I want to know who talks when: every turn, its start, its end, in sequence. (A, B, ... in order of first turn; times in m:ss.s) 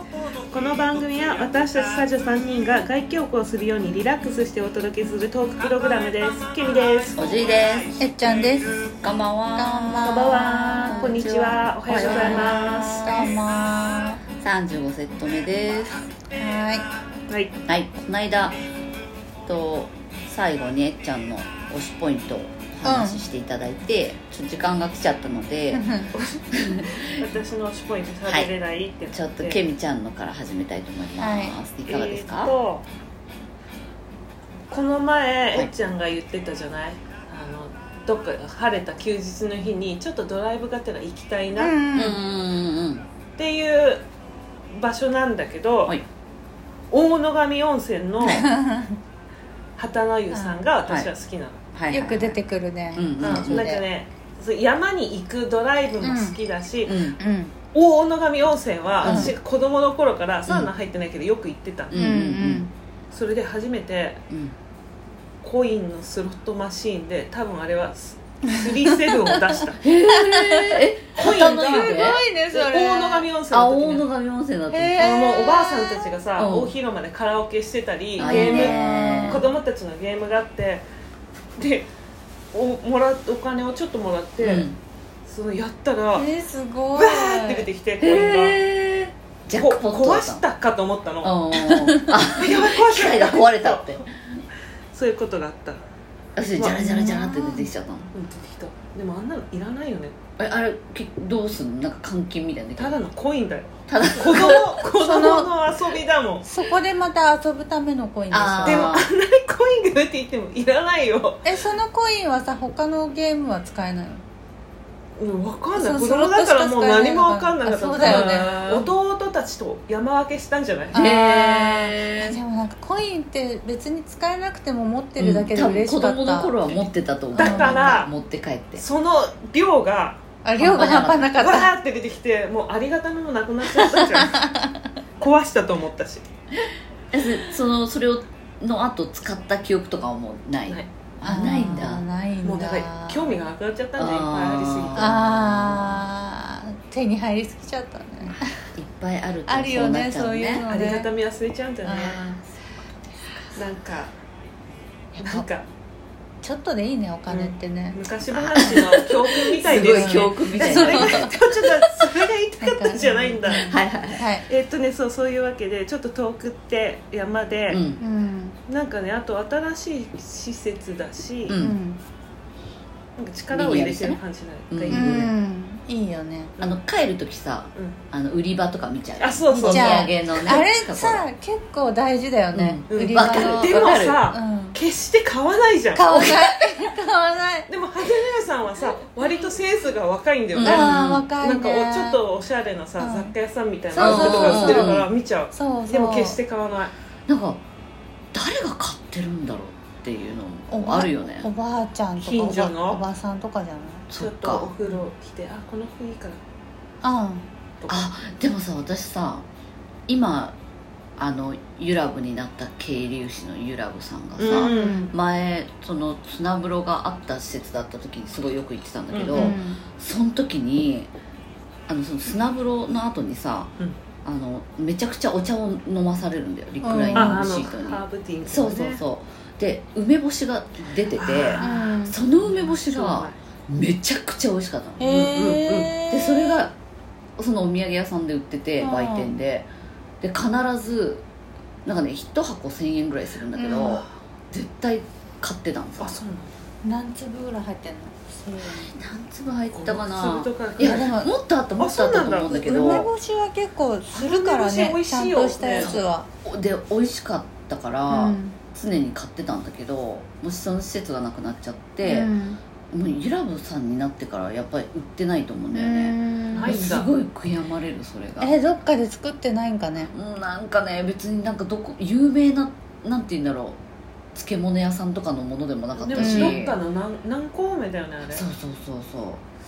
0:00.4-0:07.4 A
0:07.2-0:07.9 B
0:08.0-0:08.8 C
0:09.0-0:13.3 B
0:09.5-0:14.2 C
0:10.0-0:13.1 A
0:14.4-0:16.0 B
0:16.4-0:16.8 C
0:17.3-0:17.5 A
0:17.7-0:18.6 B
0:19.4-0:25.8 B
0:22.8-0:23.2 C
0:25.7-0:26.1 C
0:26.1-0:29.6 A
0:26.5-0:26.9 B
0:28.2-0:28.5 B
0:29.1-0:32.5 B
0:31.2-0:31.6 C
0:31.8-0:32.8 A
0:34.7-0:41.8 A
0:41.6-0:42.2 C
0:41.9-0:43.0 B
0:43.4-0:44.0 A
0:44.7-0:45.9 A
0:46.9-0:48.4 A
0:48.2-0:49.0 C
0:49.8-0:51.6 A
0:50.3-0:50.6 C
0:51.7-0:52.4 B
0:51.9-0:53.8 C
0:52.9-0:53.7 B
0:53.2-0:57.0 A
0:56.0-0:56.4 C
0:56.8-0:57.2 B
0:57.2-0:57.5 C
0:57.7-1:01.9 A
0:59.0-0:59.3 C
0:59.0-0:59.3 B
1:01.9-1:02.6 B
1:01.9-1:02.7 C
1:03.1-1:04.2 A
1:04.3-1:04.5 B
1:05.4-1:09.8 A
1:09.8-1:12.2 B
1:10.1-1:13.3 C
1:11.2-1:14.0 A
1:13.5-1:15.1 B
1:14.7-1:16.1 C
1:15.0-1:20.8 A
1:16.4-1:16.7 B
1:18.2-1:19.4 B
1:18.2-1:19.4 C
1:21.6-1:21.9 A
1:22.5-1:24.7 A
1:24.4-1:24.8 B
1:25.2-1:26.3 A
1:26.1-1:27.7 C
1:26.9-1:28.6 A
1:28.0-1:30.4 B
1:29.5-1:31.4 A
1:31.2-1:34.0 B
1:31.6-1:32.1 C
1:32.3-1:34.0 A
1:34.9-1:35.8 A
1:36.4-1:38.1 B
1:36.6-1:36.8 A
1:36.8-1:37.7 C
1:38.1-1:40.2 A
1:40.4-1:43.0 B
1:42.8-1:46.4 A
1:43.9-1:44.8 B
1:44.9-1:45.5 C
1:46.4-1:49.0 C
1:48.3-1:49.1 B
1:48.6-1:51.4 A
1:51.4-1:54.2 C
1:55.2-2:01.0 A
1:55.7-1:58.8 C
1:58.0-1:58.4 B
2:00.9-2:06.7 C
2:00.9-2:02.4 B
2:05.2-2:08.8 B
2:07.3-2:07.9 C
2:07.3-2:08.1 A
2:08.8-2:10.2 A
2:10.4-2:11.7 C
2:10.6-2:11.4 B
2:11.4-2:14.4 A
2:14.1-2:14.8 C
2:15.2-2:16.2 A
2:17.1-2:22.1 B
2:21.2-2:23.4 C
2:22.4-2:25.2 A
2:24.0-2:26.1 B
2:24.9-2:28.4 C
2:28.2-2:30.7 B
2:29.4-2:31.1 C
2:30.7-2:32.2 A
2:31.8-2:32.4 C
2:33.5-2:34.1 A
2:35.1-2:35.4 C
2:35.2-2:35.6 A
2:36.4-2:38.0 C
2:37.3-2:43.8 A
2:38.3-2:41.3 B
2:39.6-2:41.3 C
2:42.6-2:44.4 C
2:43.5-2:44.2 B
2:44.4-2:47.8 A
2:47.7-2:48.0 B
2:48.0-2:48.6 C
2:48.7-2:51.6 A
2:51.5-2:51.8 B
2:51.6-2:52.0 C
2:53.2-2:55.1 A
2:53.5-2:55.3 B
2:54.9-2:56.5 C
2:56.6-3:01.2 B
2:59.2-3:00.6 A
2:59.5-3:04.8 C
3:02.5-3:04.2 B
3:02.9-3:06.4 A
3:05.9-3:07.7 C
3:06.1-3:06.4 B
3:07.7-3:16.9 A
3:10.5-3:11.3 B
3:10.6-3:12.2 C
3:13.0-3:13.3 C
3:13.9-3:15.0 C
3:13.9-3:15.1 B
3:15.5-3:16.4 C
3:17.3-3:17.6 B
3:18.3-3:21.5 B
3:20.7-3:24.0 C
3:22.2-3:23.0 A
3:24.1-3:24.7 B
3:24.2-3:26.4 A
3:27.0-3:27.4 C
3:27.8-3:28.1 A
3:27.9-3:29.4 B
3:30.1-3:30.6 B
3:31.2-3:41.1 B
3:34.4-3:35.0 A
3:34.5-3:35.1 C
3:39.1-3:39.6 A
3:39.3-3:39.8 C
3:41.9-3:56.7 B
3:46.8-3:47.4 C
3:47.1-3:49.0 A
3:51.1-3:51.8 A
3:51.6-3:52.2 C
3:52.4-3:53.4 A
3:55.0-3:56.7 C
3:57.4-3:59.7 B
3:58.8-3:59.4 C
4:00.2-4:01.2 B
4:01.8-4:06.2 B
4:03.5-4:04.0 C
4:06.0-4:06.5 A
4:06.8-4:08.9 C
4:08.7-4:13.1 B
4:09.7-4:11.1 A
4:10.8-4:11.3 C
4:11.8-4:13.0 A
4:12.5-4:16.3 C
4:14.1-4:16.0 A
4:15.7-4:22.3 B
4:18.1-4:18.6 C
4:22.0-4:22.6 C
4:22.9-4:28.5 B
4:25.7-4:26.8 C
4:26.5-4:27.1 A
4:28.4-4:30.1 C
4:30.1-4:33.8 B
4:34.3-4:36.8 B
4:36.0-4:38.4 A
4:36.1-4:36.6 C
4:38.3-4:39.4 B